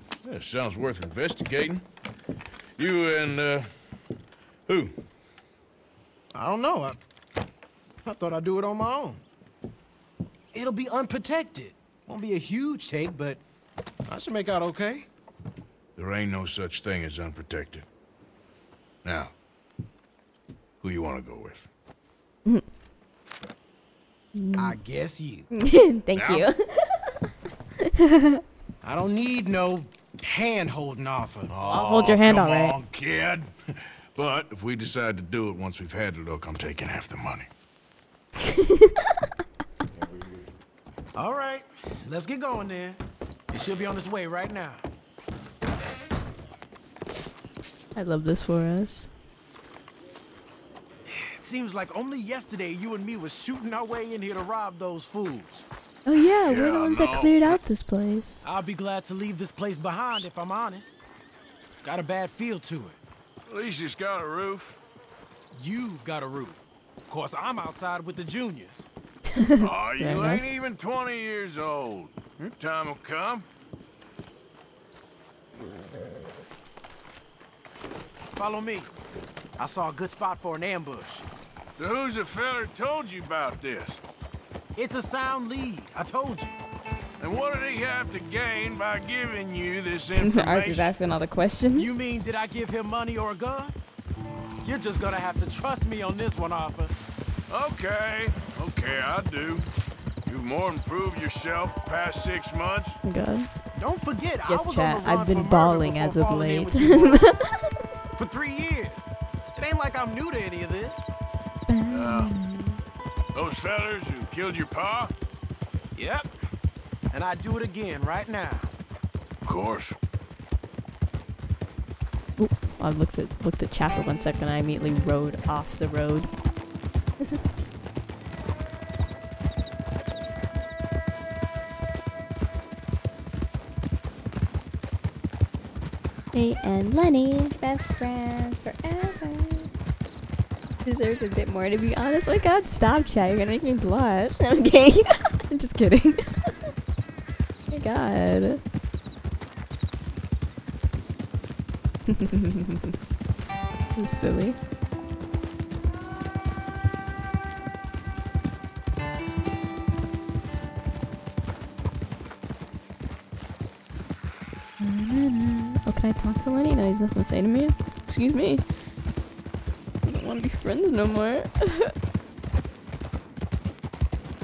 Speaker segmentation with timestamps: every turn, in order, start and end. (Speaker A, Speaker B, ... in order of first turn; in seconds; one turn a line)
Speaker A: 0.2-1.8
Speaker A: 2.8-3.7
Speaker A: 4.7-4.9
Speaker B: 6.3-7.0
Speaker B: 8.0-9.2
Speaker B: 10.5-13.4
Speaker B: 14.1-15.1
Speaker A: 15.9-17.9
Speaker A: 19.0-19.3
Speaker A: 20.8-21.6
Speaker C: 24.3-24.8
Speaker B: 24.5-25.5
Speaker C: 25.5-27.2
Speaker A: 26.1-26.5
Speaker C: 27.9-28.4
Speaker B: 28.8-31.5
Speaker A: 31.5-33.5
Speaker C: 31.6-32.8
Speaker A: 34.1-37.5
Speaker C: 38.5-38.9
Speaker B: 41.1-44.8
Speaker C: 47.9-49.1
Speaker B: 51.1-55.6
Speaker C: 56.0-58.4
Speaker A: 56.4-57.6
Speaker B: 58.4-60.9
Speaker B: 61.8-63.0
Speaker A: 63.5-64.8
Speaker B: 65.5-68.9
Speaker C: 69.3-70.5
Speaker A: 69.6-73.4
Speaker B: 78.3-78.9
Speaker B: 79.6-81.2
Speaker A: 81.8-84.0
Speaker B: 84.7-86.6
Speaker A: 87.2-90.9
Speaker C: 90.1-92.0
Speaker B: 91.7-93.7
Speaker B: 94.6-96.9
Speaker A: 97.5-99.7
Speaker A: 100.2-103.0
Speaker C: 103.0-103.5
Speaker B: 103.8-107.3
Speaker C: 104.5-107.7
Speaker B: 108.2-111.0
Speaker C: 111.7-112.8
Speaker A: 111.9-112.3
Speaker A: 113.3-115.1
Speaker B: 116.0-116.3
Speaker B: 117.1-118.7
Speaker A: 119.4-120.0
Speaker C: 122.4-126.3
Speaker C: 136.3-139.7
Speaker C: 140.8-146.5
Speaker C: 147.7-148.6
Speaker C: 152.1-152.9
Speaker C: 153.9-154.6
Speaker C: 164.8-168.7
Speaker C: 170.0-171.9